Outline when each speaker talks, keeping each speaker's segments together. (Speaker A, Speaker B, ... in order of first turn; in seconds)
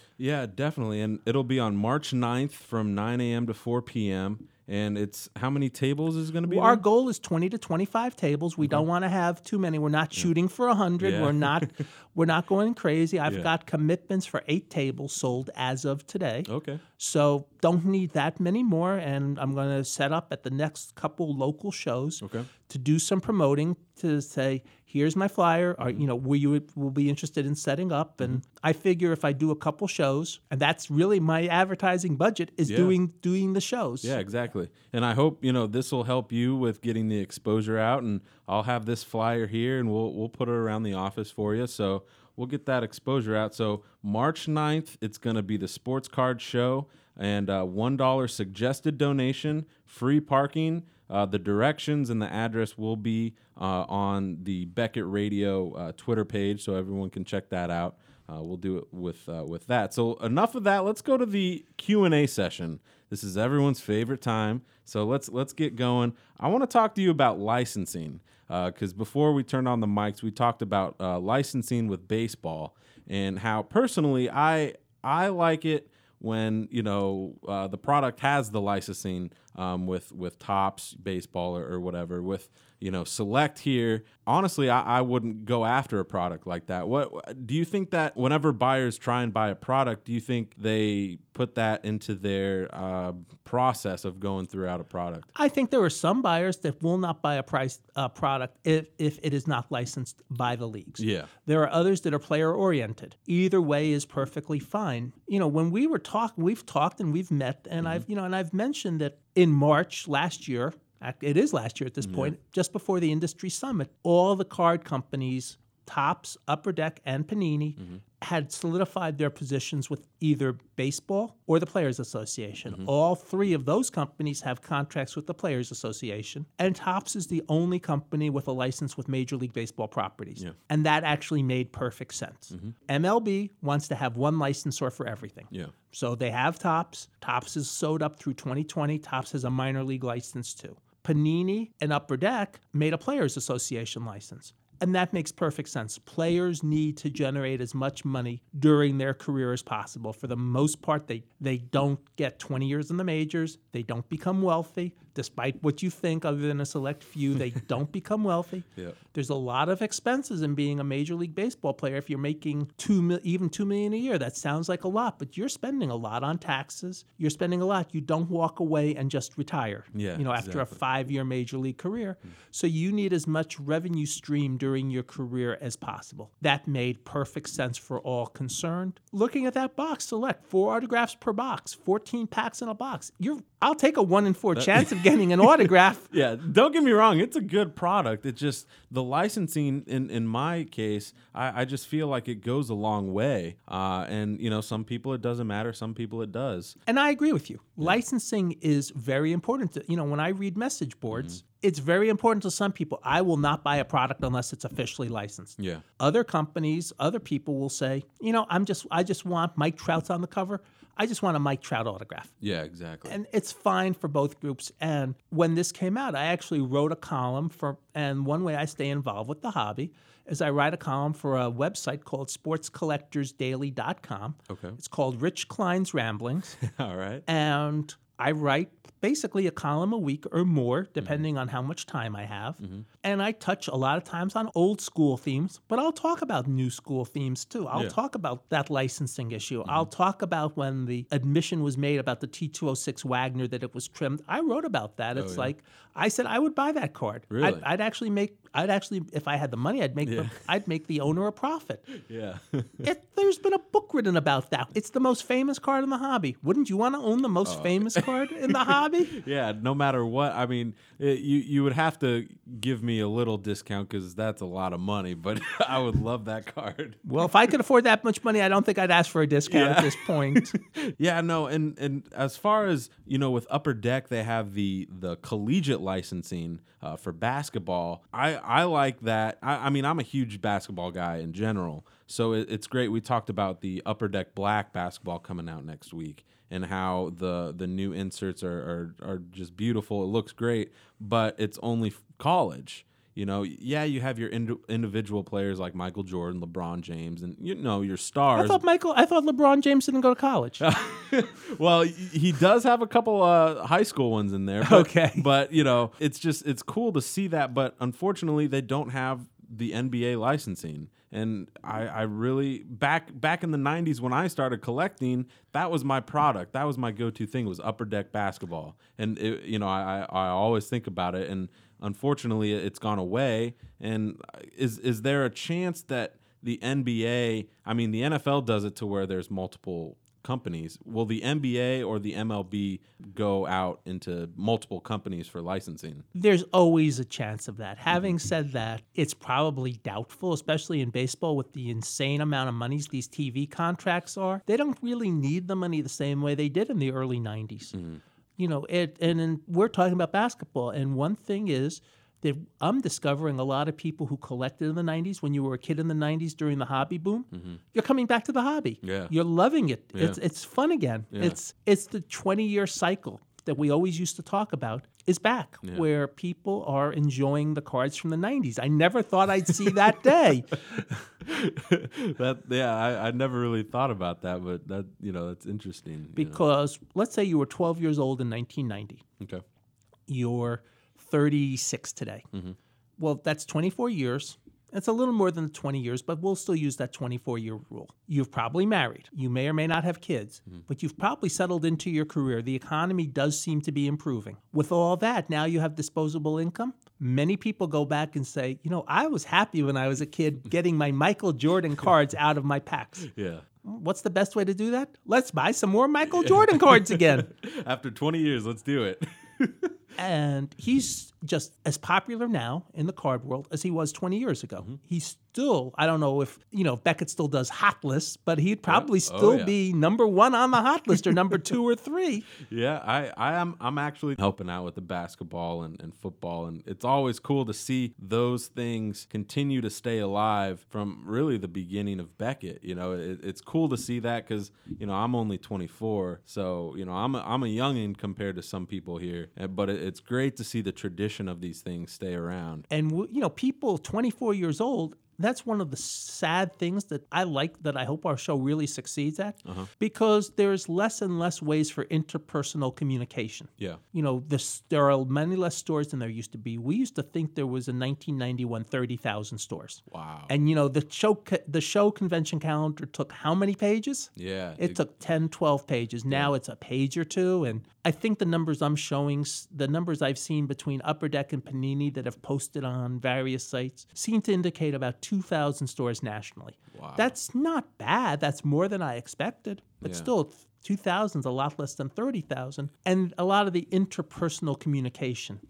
Speaker A: 0.2-6.8, 11.0-11.7, 16.5-16.8, 22.2-22.5, 32.7-33.0, 34.0-95.3, 101.0-101.3, 107.8-108.0, 112.0-112.3, 169.9-170.8, 184.5-196.8, 201.1-201.4, 212.4-213.2, 224.5-224.8, 226.6-227.2, 231.0-231.2, 245.1-245.5, 247.3-247.7, 250.0-250.4, 251.9-252.9, 257.4-267.0, 269.5-298.6, 300.6-336.0, 347.7-348.0, 357.3-357.6, 358.8-359.1, 370.7-376.4, 403.0-403.4, 406.1-409.8, 418.7-419.5, 422.4-442.6, 459.9-460.3, 464.1-464.8, 476.7-477.1, 479.8-480.1
Speaker B: 6.5-34.2, 95.3-186.1, 196.9-212.3, 213.1-226.6, 227.3-251.9, 252.8-259.1, 267.1-270.5, 298.3-300.6, 304.6-305.2, 336.1-347.7, 348.4-370.6, 376.1-379.0, 380.1-382.2, 383.0-403.1, 403.6-407.3, 410.0-422.3, 442.7-485.4